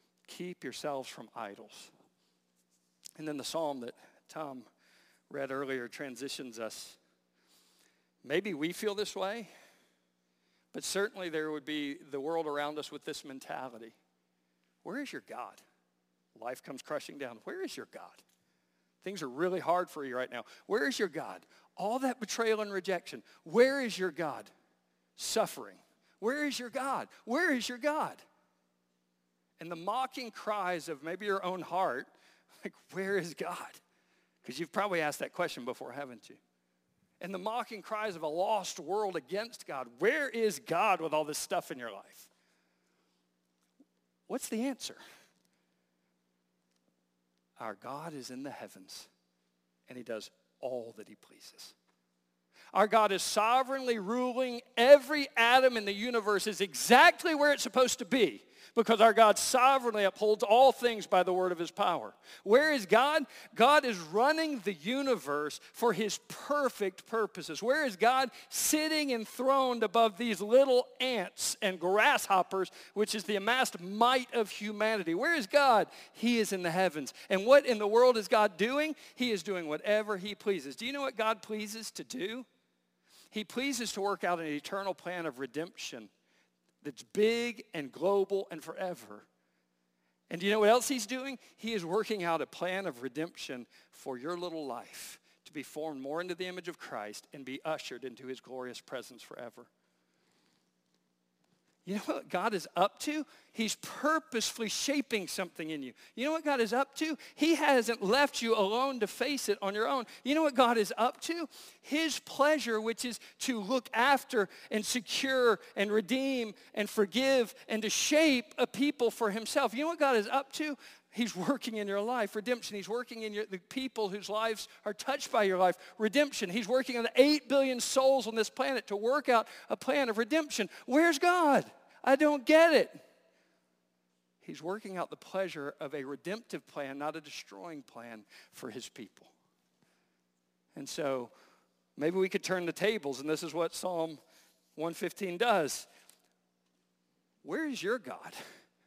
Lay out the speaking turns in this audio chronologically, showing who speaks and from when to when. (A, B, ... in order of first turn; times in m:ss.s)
0:00.3-0:01.9 A
0:03.2-0:04.7 A
0:05.3-0:07.0 A
0:08.2-0:09.5 A
0:10.7-0:14.0 A
0:14.8-0:15.6 A
0:16.4-0:18.2 A
0:19.0-0:24.5 A
0:25.2-0:28.2 A
0:29.6-0:32.1 A
0:32.6-0:33.8 A
0:34.4-0:36.4 A
0:37.2-0:42.3 A
0:44.3-0:45.0 A
0:47.6-0:49.1 A
0:49.9-0:51.7 A
0:52.7-1:22.4 A
1:23.3-1:26.1 A
1:26.8-1:29.2 A
1:30.3-1:39.7 A
1:41.8-2:13.0 A
2:14.4-2:19.3 A
2:20.7-2:21.3 A
2:22.0-2:24.2 A
2:24.8-2:25.9 A
2:27.4-2:28.4 A